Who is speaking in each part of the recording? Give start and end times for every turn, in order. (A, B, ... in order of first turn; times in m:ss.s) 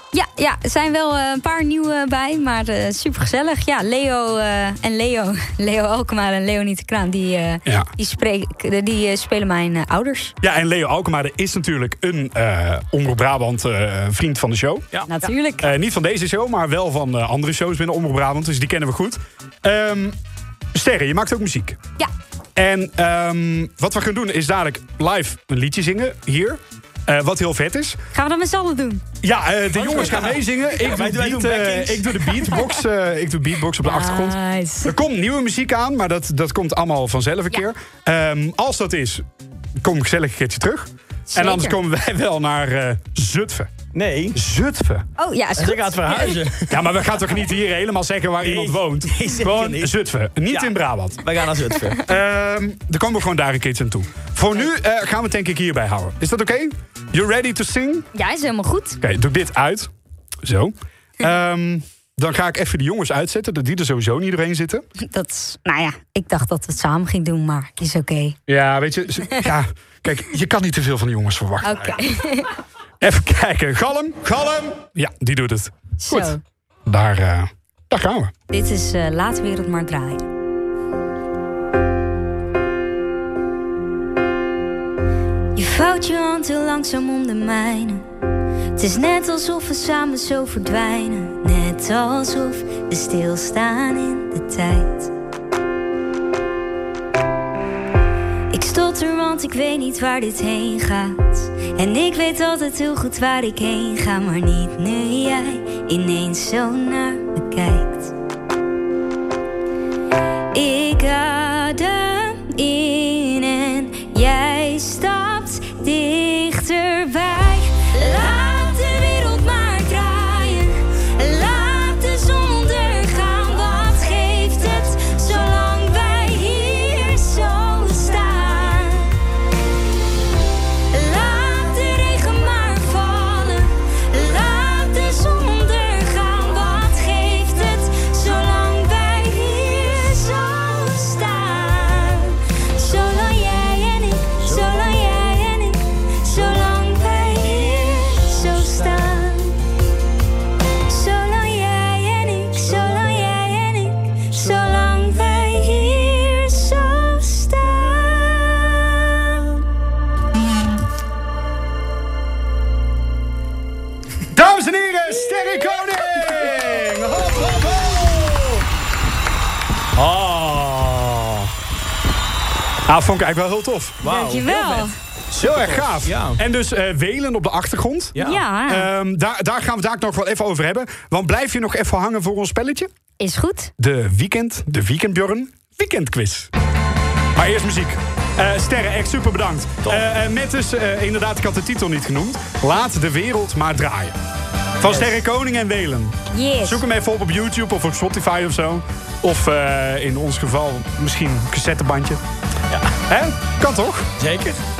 0:00.1-0:10.3 A
0:10.4-0:14.9 B
0:15.1-0:15.7 A
0:15.6-0:20.2 B
0:20.7-0:21.8 B
0:22.6-0:28.0 B
0:28.1-0:29.0 A
0:29.2-0:39.2 B
0:29.7-0:32.3 C
0:32.4-0:32.8 A
0:33.8-0:35.0 A
0:39.8-0:43.7 B
0:41.3-0:41.8 A
0:43.9-0:44.4 C
0:44.3-0:45.1 B
0:45.2-0:46.4 A
0:45.6-0:46.8 C
0:46.7-0:51.2 B
0:48.4-0:49.9 C
0:50.5-0:52.0 C
0:52.0-0:58.1 B
0:58.1-0:59.0 A
0:59.0-0:59.9 B
1:00.4-1:04.8 B
1:05.0-1:08.4 A
1:08.5-1:12.0 B
1:11.6-1:12.5 A
1:13.0-1:18.3 B
1:16.0-1:16.4 A
1:18.5-1:20.2 A
1:25.5-1:28.0 A
1:28.8-1:35.1 A
1:38.5-1:48.1 A
1:50.5-2:09.1 A
2:10.9-2:29.6 A
2:30.9-2:39.6 A
2:44.3-2:48.6 B
2:50.0-2:51.5 B
2:52.9-2:54.0 B
2:54.0-2:54.7 C
2:54.0-2:54.9 A
2:55.3-2:56.4 C
2:55.4-3:02.9 B
2:58.1-2:58.4 C
2:58.2-2:58.9 A
3:03.2-3:03.7 A
3:03.8-3:06.5 B
3:07.3-3:14.2 B
3:14.8-3:22.2 B
3:14.8-3:15.1 C
3:16.3-3:16.8 A
3:23.1-3:24.1 B
3:24.2-3:24.6 C